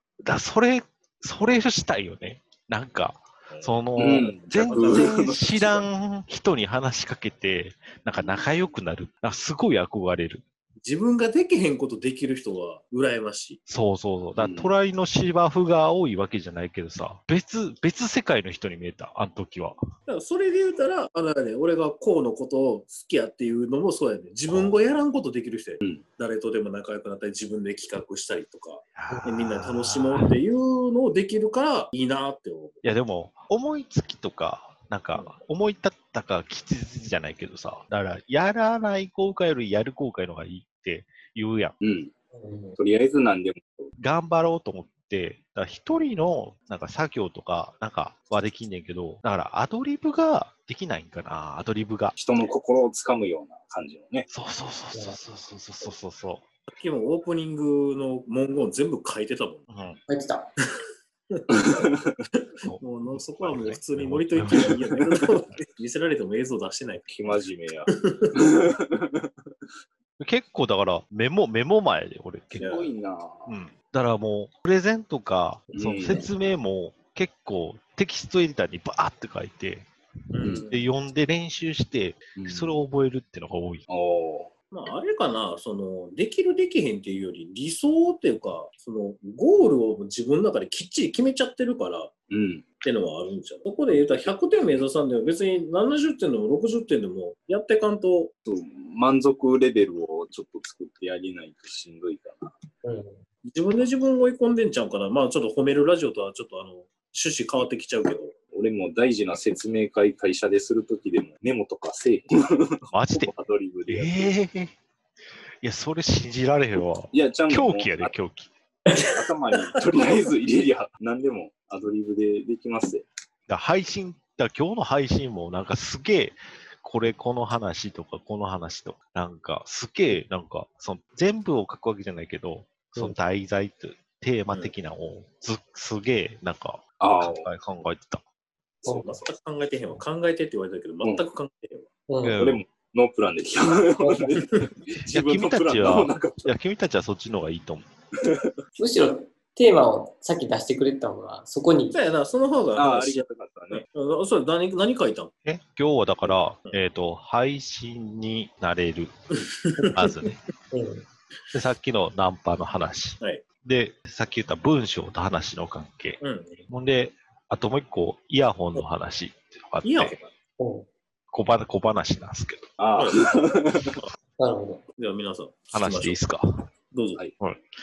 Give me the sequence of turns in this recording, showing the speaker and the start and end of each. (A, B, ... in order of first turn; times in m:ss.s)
0:00.2-0:10.4 A
0:03.5-0:05.3 B
0:04.0-0:05.8 C
0:10.8-0:13.6 B
0:13.7-0:19.8 A
0:14.4-0:14.7 C
0:20.1-0:32.8 B
0:29.0-0:30.3 A
0:32.8-0:41.7 A
0:41.8-0:42.1 C
0:42.3-0:42.8 D
0:42.8-0:43.9 C
0:44.0-0:52.1 A
0:52.2-0:54.3 C
0:54.3-0:56.4 A
0:56.7-0:59.6 B
0:59.7-1:00.0 A
1:00.1-1:00.5 D
1:01.3-1:01.9 B
1:01.5-1:02.2 C
1:02.6-1:05.6 A
1:02.8-1:07.1 B
1:07.1-1:09.3 C
1:08.0-1:08.3 B
1:10.2-1:12.8 A
1:12.6-1:13.5 C
1:13.4-1:19.9 A
1:15.7-1:16.3 C
1:20.3-1:20.8 B
1:20.4-1:20.7 C
1:20.4-1:23.8 A
1:22.4-1:22.8 C
1:23.9-1:24.5 C
1:24.7-1:32.1 B
1:32.3-1:32.6 C
1:32.8-1:38.3 B
1:38.4-1:42.5 C
1:42.8-1:43.2 D
1:43.5-1:48.3 B
1:48.5-1:54.3 C
1:52.9-1:53.3 A
1:53.9-1:54.7 A
1:55.6-1:58.5 A
1:57.1-1:58.1 C
1:58.9-2:03.0 C
2:03.5-2:18.2 A
2:17.0-2:17.5 C
2:18.8-2:21.9 B
2:22.1-2:22.4 D
2:22.2-2:22.6 A
2:22.4-2:26.5 C
2:25.0-2:27.9 A
2:28.2-2:28.5 C
2:28.8-2:32.0 D
2:31.9-2:35.3 B
2:32.7-2:33.8 C
2:35.4-2:39.1 A
2:39.5-2:40.2 B
2:39.8-2:40.4 A
2:40.7-2:41.0 D
2:41.5-2:50.2 A
2:46.2-2:46.6 B
2:49.8-2:50.3 B
2:50.6-2:50.8 D
2:51.3-2:52.7 A
2:52.8-2:54.0 C
2:53.0-2:53.3 B
2:54.4-2:54.8 D
2:55.0-2:56.2 B
2:55.7-2:56.4 A
2:56.9-2:57.2 B